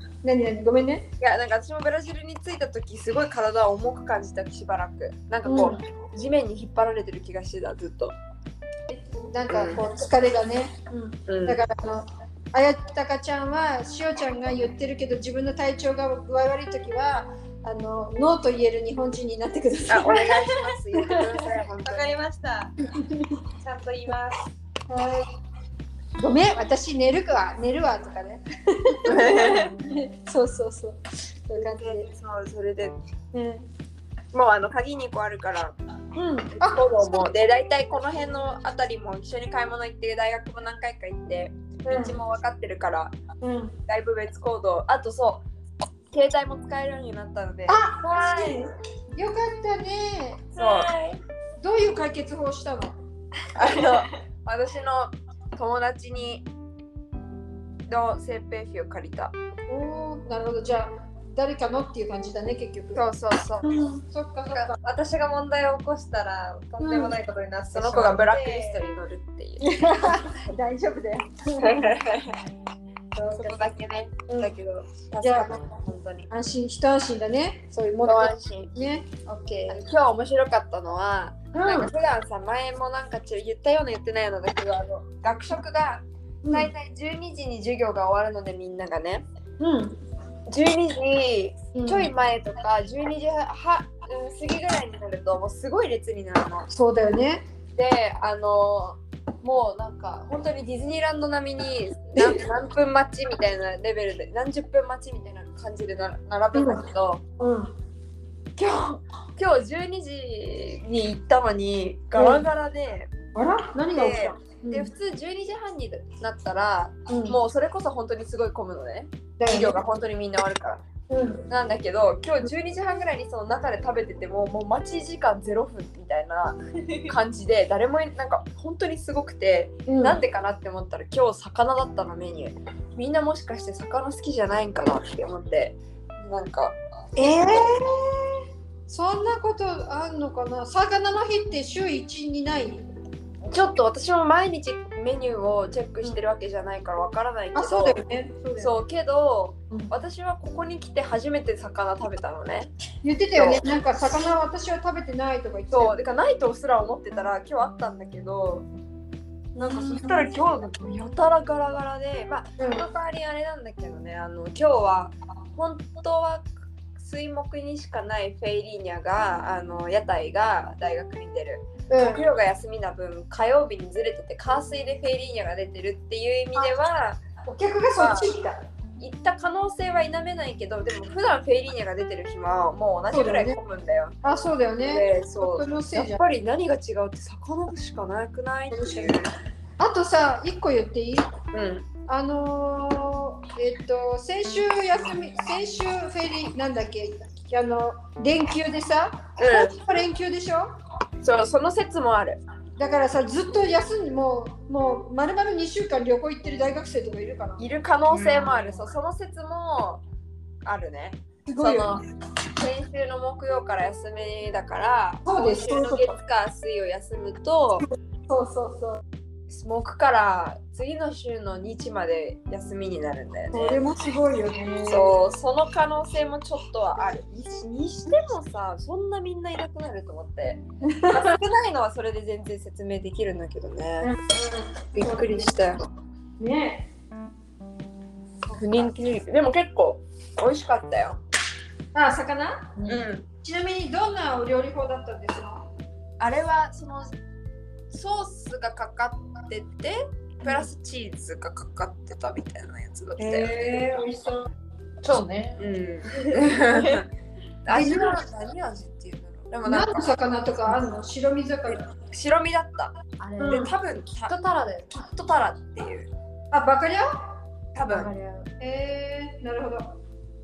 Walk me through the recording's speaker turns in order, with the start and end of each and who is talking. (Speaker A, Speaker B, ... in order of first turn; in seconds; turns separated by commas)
Speaker A: 0.2-1.1, Speaker B: 1.2-8.1, Speaker A: 5.4-5.8, Speaker A: 8.9-21.4, Speaker B: 9.5-9.8, Speaker B: 11.3-11.6, Speaker B: 19.9-22.1, Speaker C: 21.8-22.8, Speaker A: 22.8-23.4, Speaker C: 23.6-24.4, Speaker A: 24.9-25.2, Speaker A: 26.2-32.1, Speaker B: 29.0-29.7, Speaker B: 31.6-33.0, Speaker A: 33.3-33.6, Speaker B: 34.3-35.8, Speaker A: 36.1-37.0, Speaker B: 36.6-43.1, Speaker A: 41.9-42.2, Speaker A: 43.4-43.7, Speaker B: 43.9-45.4, Speaker B: 46.1-48.5, Speaker A: 47.7-50.4, Speaker C: 48.2-48.5, Speaker B: 50.5-51.0, Speaker C: 50.5-51.2, Speaker A: 51.6-52.9, Speaker B: 53.5-56.5, Speaker B: 57.9-59.3, Speaker A: 59.7-63.0, Speaker B: 62.9-63.7, Speaker A: 63.6-64.8, Speaker C: 64.6-68.8, Speaker A: 66.8-67.2, Speaker B: 67.7-69.7, Speaker A: 69.6-71.8, Speaker B: 71.6-72.3, Speaker A: 73.1-73.7, Speaker B: 73.3-76.3, Speaker A: 74.3-74.5, Speaker A: 75.2-75.6, Speaker A: 76.3-79.8, Speaker B: 78.0-78.7, Speaker B: 79.7-89.2, Speaker A: 81.5-81.9, Speaker A: 86.4-86.7, Speaker A: 89.6-90.0, Speaker B: 90.5-96.7, Speaker A: 91.7-92.1, Speaker A: 96.7-97.4, Speaker B: 97.8-107.2, Speaker A: 106.5-106.8, Speaker A: 107.4-107.7, Speaker B: 108.6-113.1, Speaker A: 112.1-112.4, Speaker A: 113.3-114.9, Speaker B: 113.9-120.8, Speaker A: 117.1-117.4, Speaker A: 119.4-119.8, Speaker A: 121.1-121.4, Speaker B: 121.5-137.6, Speaker A: 129.9-130.2, Speaker A: 137.2-142.9, Speaker B: 143.5-148.0, Speaker A: 147.5-148.8, Speaker B: 148.6-152.7, Speaker A: 153.0-155.9, Speaker B: 153.3-153.6, Speaker B: 155.7-158.7, Speaker A: 159.5-160.2, Speaker B: 159.6-177.2, Speaker A: 162.6-162.9, Speaker A: 171.9-172.2, Speaker A: 177.4-178.6, Speaker B: 177.9-178.3, Speaker B: 179.0-184.2, Speaker A: 183.1-183.6, Speaker A: 184.2-186.2, Speaker B: 184.8-189.3, Speaker A: 188.7-189.2, Speaker A: 189.8-191.3, Speaker B: 191.5-191.9, Speaker A: 192.1-200.7, Speaker B: 199.4-199.8, Speaker B: 201.2-202.4, Speaker A: 202.8-207.6, Speaker B: 207.6-210.0, Speaker B: 210.6-212.0, Speaker A: 211.4-212.0, Speaker B: 212.6-217.9, Speaker A: 215.2-216.2, Speaker A: 217.8-219.0, Speaker B: 219.5-223.8, Speaker A: 223.5-225.1, Speaker B: 224.8-234.1, Speaker A: 230.9-231.4, Speaker A: 234.0-235.5, Speaker B: 234.9-235.8, Speaker A: 236.4-236.9, Speaker B: 238.5-241.2, Speaker A: 241.9-242.8, Speaker B: 242.9-243.2, Speaker A: 243.4-245.6, Speaker B: 246.2-247.2, Speaker B: 247.9-253.6, Speaker C: 253.2-254.1, Speaker A: 253.5-254.4, Speaker C: 255.0-255.6, Speaker B: 255.6-257.1, Speaker C: 256.2-256.9, Speaker B: 257.6-260.8, Speaker A: 257.7-258.2, Speaker A: 259.6-261.9, Speaker B: 261.7-264.4, Speaker C: 263.2-263.7, Speaker A: 263.4-263.7, Speaker C: 264.2-264.9, Speaker B: 264.9-266.1, Speaker A: 266.5-267.1, Speaker B: 267.8-268.1, Speaker C: 267.8-268.5, Speaker A: 268.6-269.9